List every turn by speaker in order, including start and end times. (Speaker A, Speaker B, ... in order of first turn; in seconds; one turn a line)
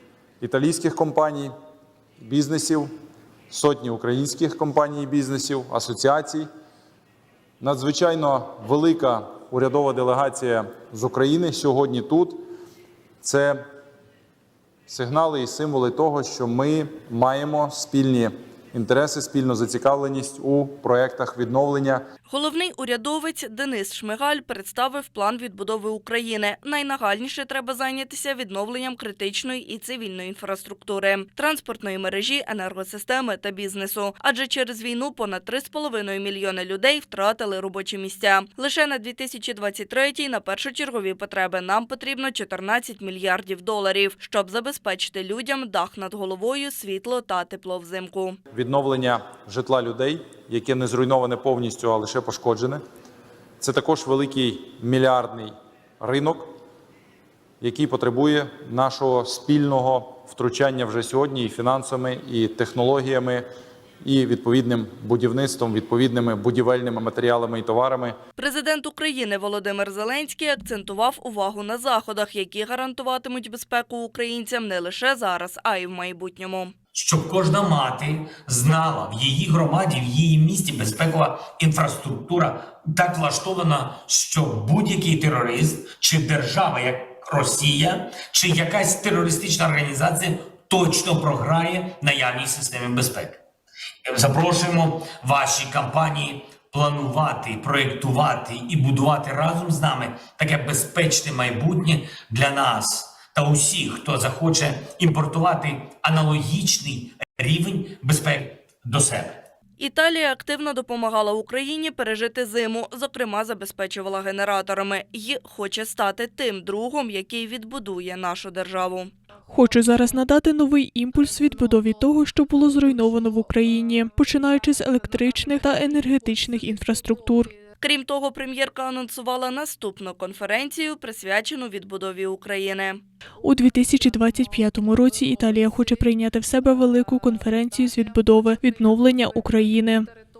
Speaker A: 0.4-1.5
Speaker A: 2.2-2.9
Speaker A: 3.5-6.5
Speaker A: 7.6-12.4
Speaker A: 13.2-13.6
Speaker A: 14.9-22.0
Speaker B: 22.3-48.4
Speaker A: 48.5-52.8
Speaker A: 53.6-56.5
Speaker A: 57.6-63.4
Speaker A: 64.0-68.1
Speaker B: 68.4-76.7
Speaker C: 76.9-93.4
Speaker C: 94.0-109.4
Speaker B: 109.8-119.1
Speaker D: 119.5-127.5
Speaker B: 127.8-133.0
Speaker D: 133.4-140.1